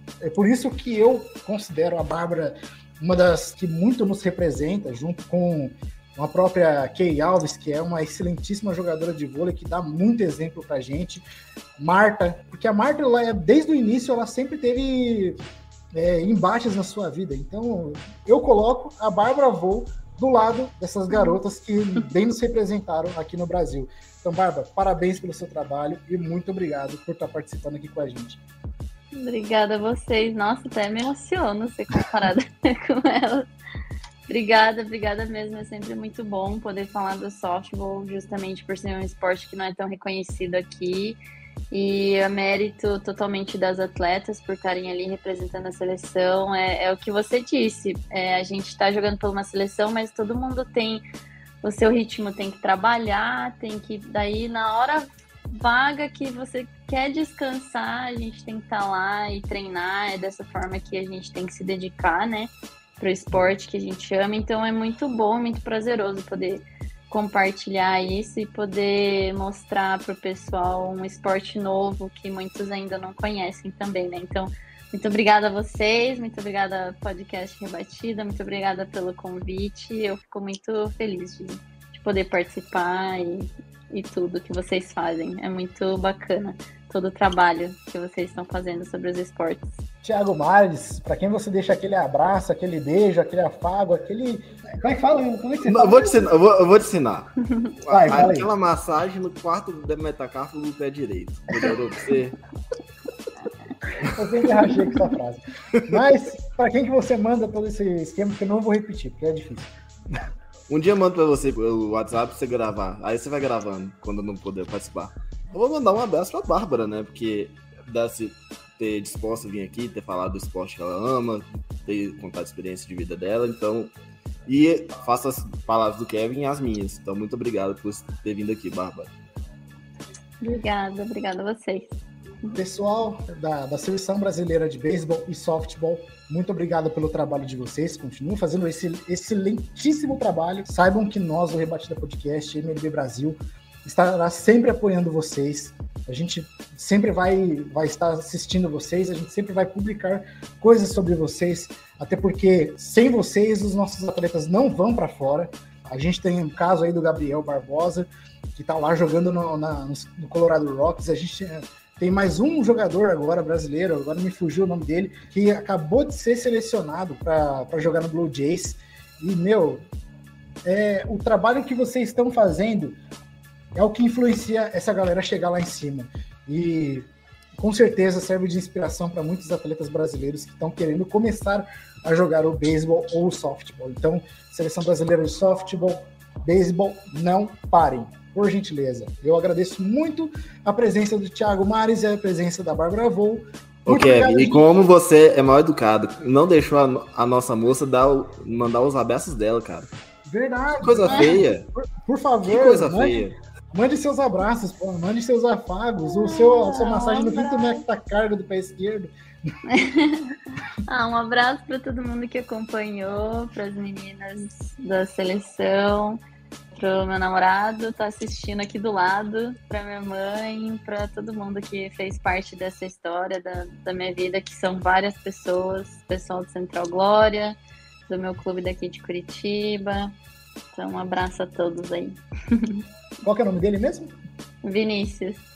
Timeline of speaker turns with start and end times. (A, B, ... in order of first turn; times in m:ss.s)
0:00.2-0:11.2 A
0:11.8-0:15.4 A
0:15.9-0:28.4 A
0:29.1-0:33.5 B
0:34.3-0:41.2 B
0:41.7-0:51.0 B
0:51.6-1:29.8 B
1:30.0-1:36.3 A
1:35.7-1:42.4 C
1:37.9-1:38.5 A
1:44.0-1:50.2 A
1:50.7-2:03.9 C
2:04.5-2:09.1 C
2:10.4-2:12.6 B
2:12.6-2:49.9 A
2:50.6-2:53.0 A
2:53.7-3:14.6 A
3:13.9-3:19.9 C
3:20.2-3:29.1 A
3:20.8-3:21.7 C
3:22.5-3:23.4 C
3:26.1-3:27.8 B
3:29.7-3:36.2 B
3:36.8-3:47.6 B
3:48.1-3:50.1 B
3:50.7-3:52.8 B
3:53.2-3:54.2 A
3:54.6-3:55.4 B